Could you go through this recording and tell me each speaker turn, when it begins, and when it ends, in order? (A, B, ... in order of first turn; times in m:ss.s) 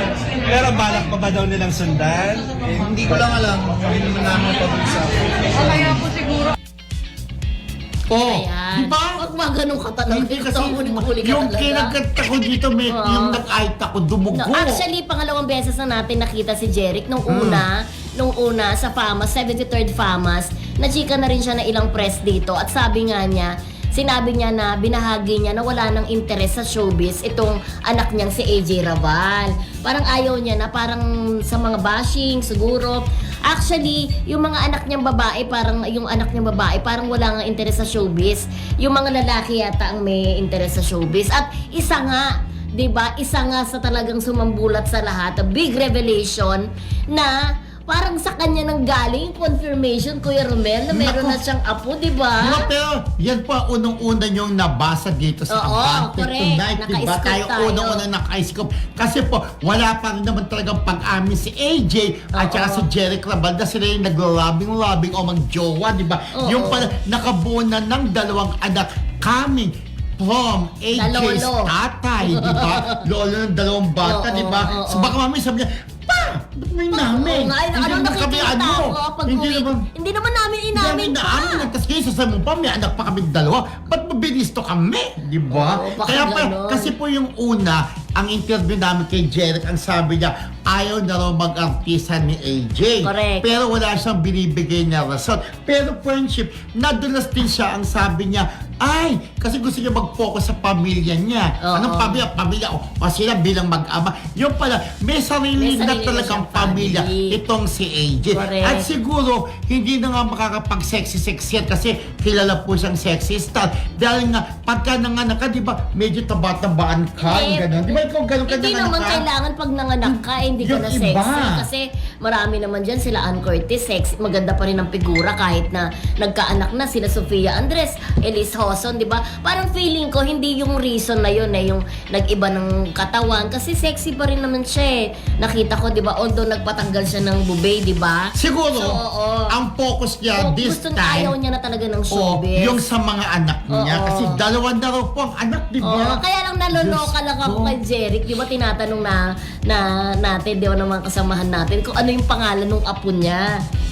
0:00.5-0:03.3 A
0:02.8-0:06.0 B
0:08.1-0:09.2 C
0:08.2-0:11.9 D
0:10.1-0:14.8 C
0:12.9-0:13.4 D
0:14.3-0:52.7 D
0:17.3-0:17.6 C
0:50.9-0:51.4 C
0:52.4-1:19.9 C
0:55.5-0:58.0 D
1:02.4-1:02.8 D
1:06.3-1:06.9 D
1:11.0-1:11.7 D
1:12.2-1:13.0 D
1:14.0-1:15.1 D
1:16.9-1:21.7 D
1:20.7-1:59.3 C
1:25.5-1:26.9 D
1:33.0-1:33.4 D
1:41.6-1:42.2 D
1:45.6-1:47.4 D
1:48.3-1:48.9 D
1:57.2-2:19.5 D
2:00.0-2:01.7 C
2:18.4-2:19.0 C
2:19.5-2:21.3 C
2:20.4-2:22.8 D
2:22.1-2:27.8 C
2:23.7-2:24.4 D
2:25.8-2:33.5 D